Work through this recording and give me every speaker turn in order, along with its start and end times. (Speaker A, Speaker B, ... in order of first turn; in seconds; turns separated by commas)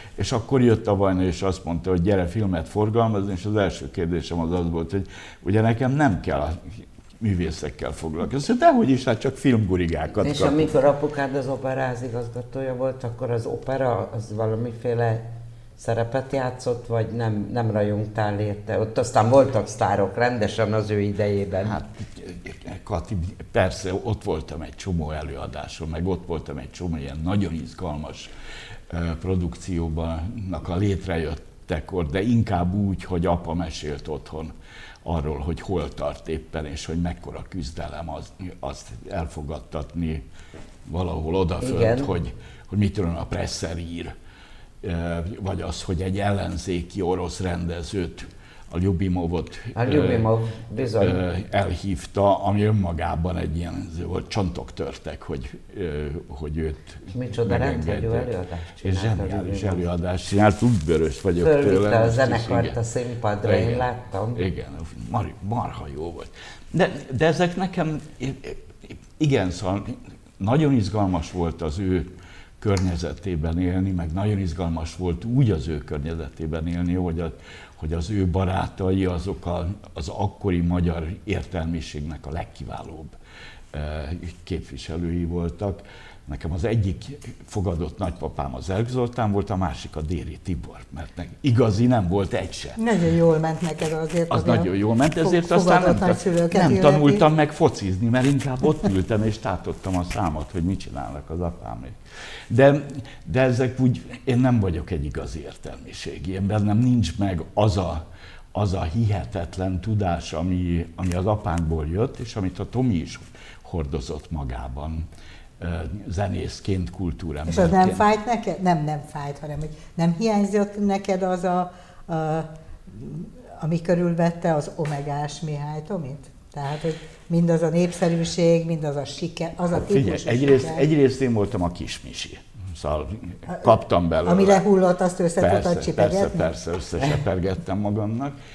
Speaker A: 0.2-10.7, Speaker B: 10.2-21.8, Speaker A: 21.6-28.3, Speaker A: 28.9-40.3, Speaker A: 40.9-44.1, Speaker B: 41.6-42.1, Speaker A: 44.8-50.3, Speaker B: 49.7-51.2, Speaker A: 51.0-58.3, Speaker B: 57.1-59.8, Speaker A: 58.8-62.8, Speaker B: 61.4-64.4, Speaker A: 63.4-83.2, Speaker A: 83.7-92.8, Speaker C: 92.8-97.2, Speaker A: 94.3-102.0, Speaker A: 102.5-115.1, Speaker A: 115.6-118.0, Speaker C: 117.5-130.8, Speaker A: 129.7-134.6, Speaker C: 134.2-136.5, Speaker A: 135.4-138.3